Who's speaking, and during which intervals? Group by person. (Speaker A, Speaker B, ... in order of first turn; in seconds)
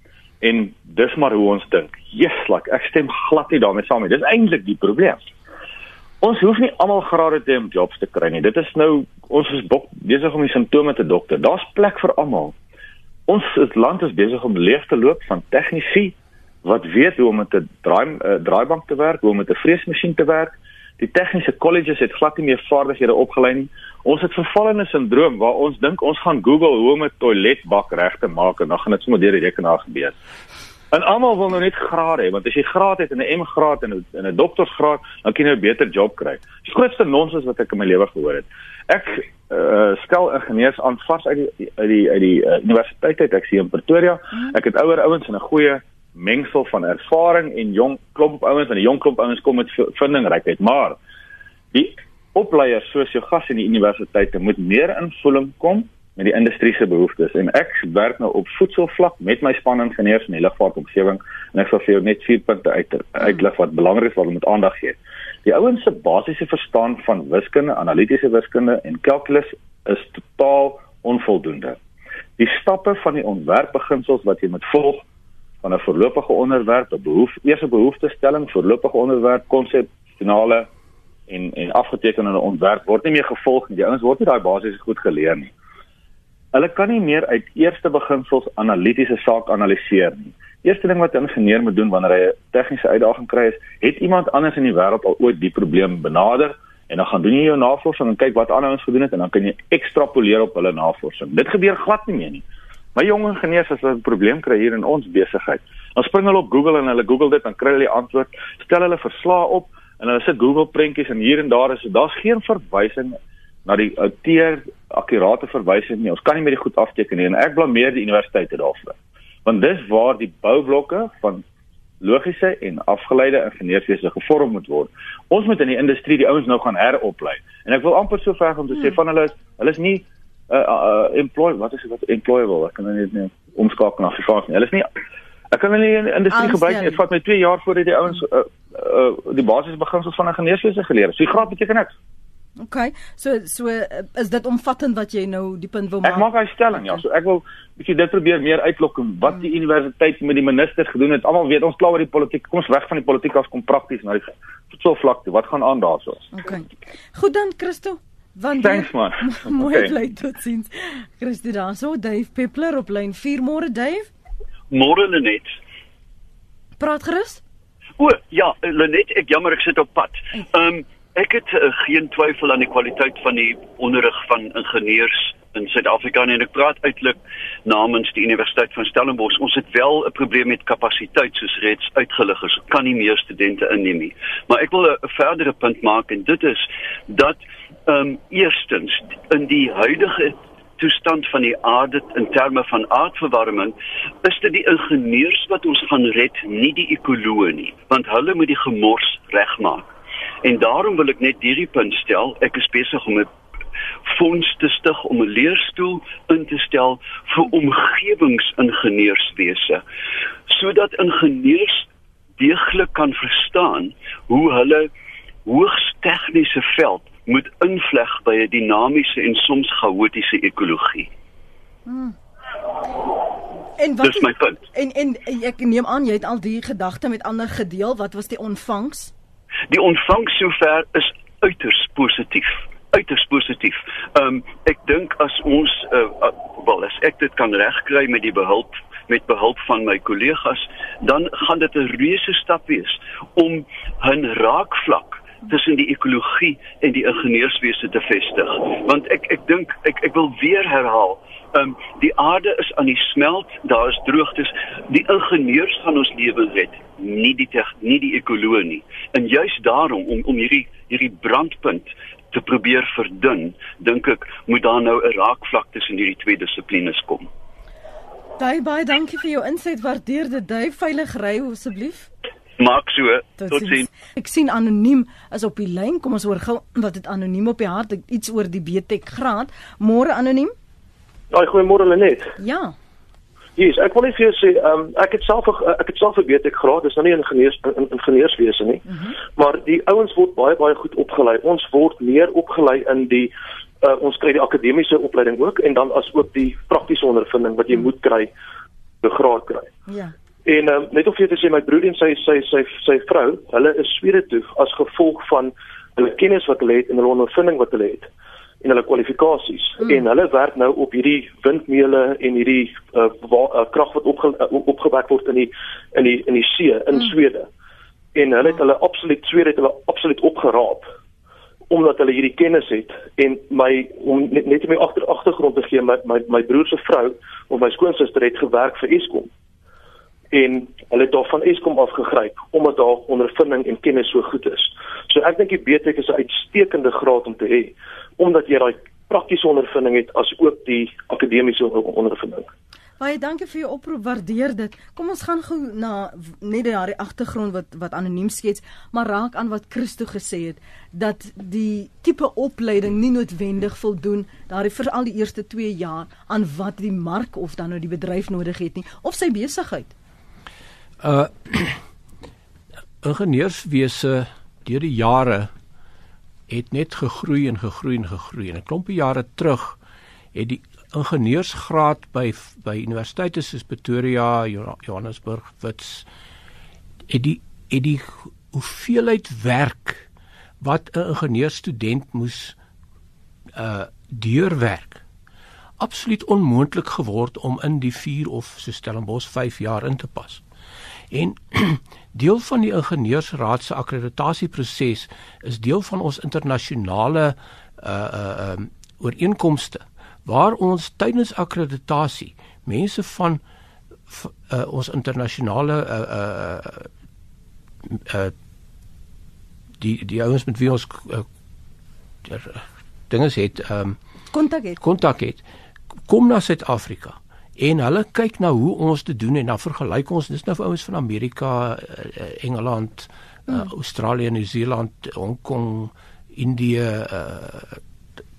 Speaker A: 0.4-5.2, 6.2-12.5, 13.3-30.1, 30.9-51.0, 51.7-71.8, 72.4-75.0, 75.6-80.7, 81.3-85.5, 86.5-102.4, 103.0-121.4, 122.0-134.9, 135.5-141.9, 146.0-156.3, 158.6-159.9
Speaker B: 136.3-137.0, 142.6-146.2, 156.3-164.1, 166.8-167.4, 221.8-222.1, 223.8-229.1, 268.4-272.1, 273.4-280.5, 282.4-282.7, 299.9-300.1, 343.0-359.9, 414.3-414.8
Speaker C: 164.7-165.6, 168.0-199.9, 200.4-203.3, 204.1-209.8, 210.5-211.8, 212.4-214.9, 215.4-221.1, 224.0-224.6, 229.7-267.3, 272.6-273.9
Speaker D: 281.3-282.3, 283.6-293.3, 293.8-298.3, 299.0-299.7, 300.4-308.1, 308.6-317.5, 318.1-320.9, 321.7-329.3, 330.3-342.5
Speaker E: 361.0-361.8, 363.0-365.5, 366.5-369.8, 370.3-376.1, 377.1-380.1, 380.6-382.6, 383.5-385.0, 385.8-390.4, 391.1-403.4, 404.1-406.9, 407.9-408.3, 409.8-411.2, 412.2-414.0, 414.8-415.4, 416.1-427.8